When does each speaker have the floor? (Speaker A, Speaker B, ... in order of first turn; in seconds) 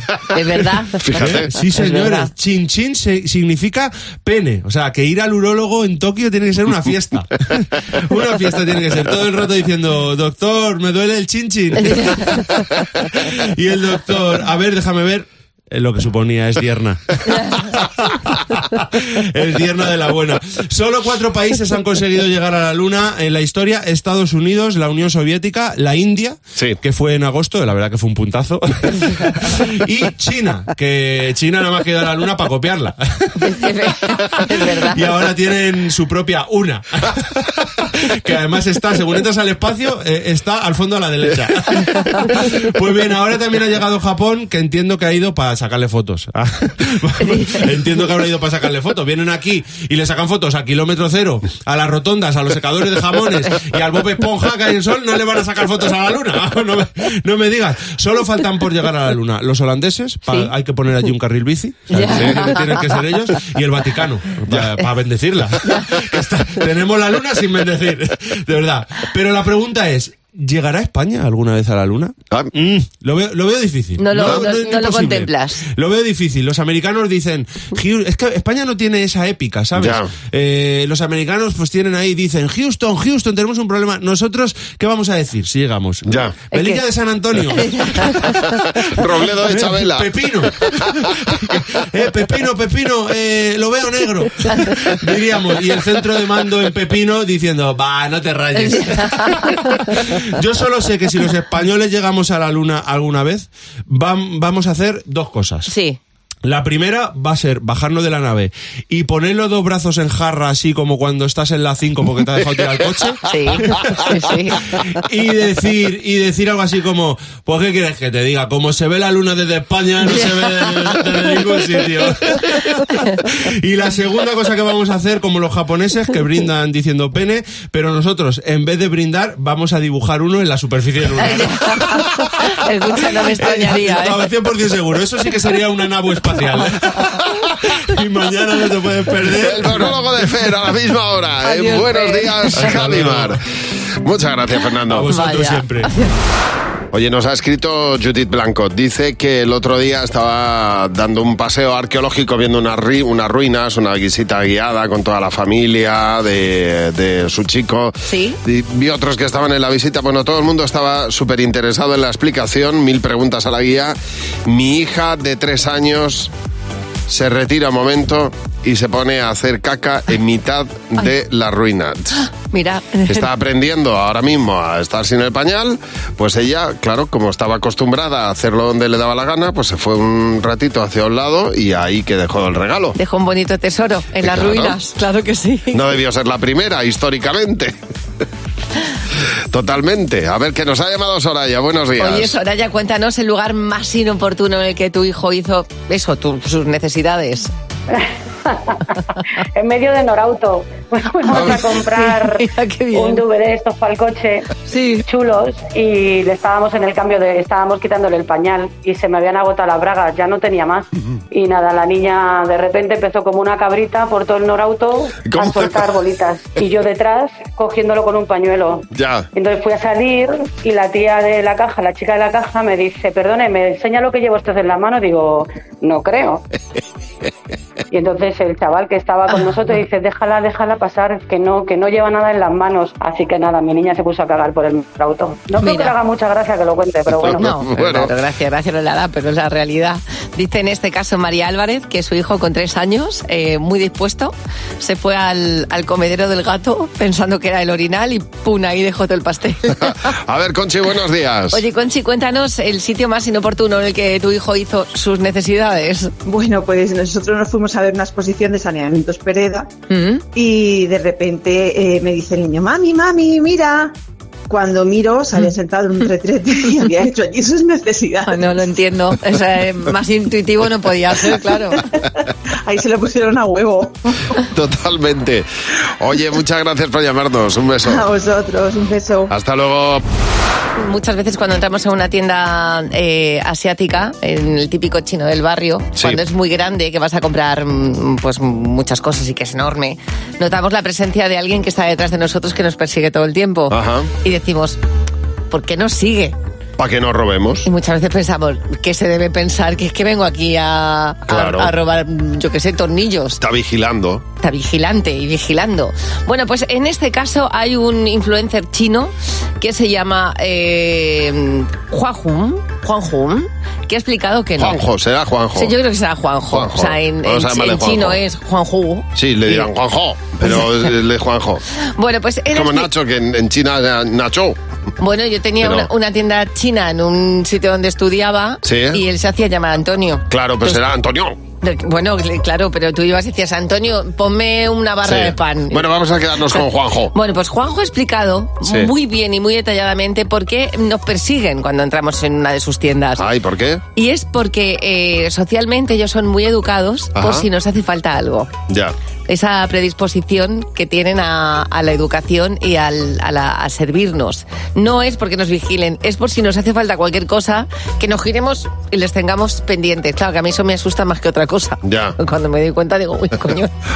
Speaker A: 0.3-2.3, 11.8-12.6, 33.4-35.1, 47.3-47.6, 61.9-62.8, 65.7-65.9, 74.0-75.6, 86.5-86.8, 87.5-88.3, 98.5-100.0, 105.7-106.0, 113.3-114.8, 120.1-121.0, 122.9-123.2, 131.2-134.3, 141.4-142.8, 145.1-146.1, 158.1-158.4, 172.2-173.3, 182.9-185.8, 192.0-197.5, 201.3-203.2, 204.7-205.0, 235.6-235.9, 237.3-249.9, 251.5-256.1, 259.9-260.2, 268.2-271.8, 280.8-294.8, 295.5-296.4, 297.6-303.4, 304.4-314.8, 315.6-319.7, 320.4-320.9, 321.9-322.9, 325.0-330.8, 331.6-335.8, 336.5-343.2, 343.9-348.5, 349.3-363.7
Speaker B: 1.0-1.5, 62.0-62.5, 79.8-80.1, 86.1-86.3, 88.8-90.1, 139.3-143.4, 144.0-145.1, 146.9-166.3, 167.1-172.2, 173.1-182.9, 184.2-184.8, 185.7-187.7, 189.5-192.4, 215.2-215.7, 218.9-219.3, 237.2-238.1, 249.9-251.6, 274.5-275.4, 276.0-278.0, 279.3-280.0, 293.7-294.1, 296.8-297.7, 301.3-301.7, 303.4-304.2, 314.6-315.7, 316.5-318.2, 319.1-321.6, 322.5-324.6, 325.6-325.9, 328.6-329.0, 330.3-331.4, 335.0-337.1, 338.6-338.9, 343.2-343.8, 347.1-347.4, 348.7-348.9, 361.8-362.1
Speaker C: 1.2-33.6, 34.3-88.6, 89.4-105.7, 106.4-113.9, 114.6-132.3, 133.0-139.9, 142.5-143.3, 144.9-145.9
Speaker D: 197.9-198.8, 199.6-204.4, 205.1-226.4, 227.9-237.5
Speaker E: 256.2-259.7, 260.3-263.9, 264.5-268.6, 272.6-274.1, 277.9-279.3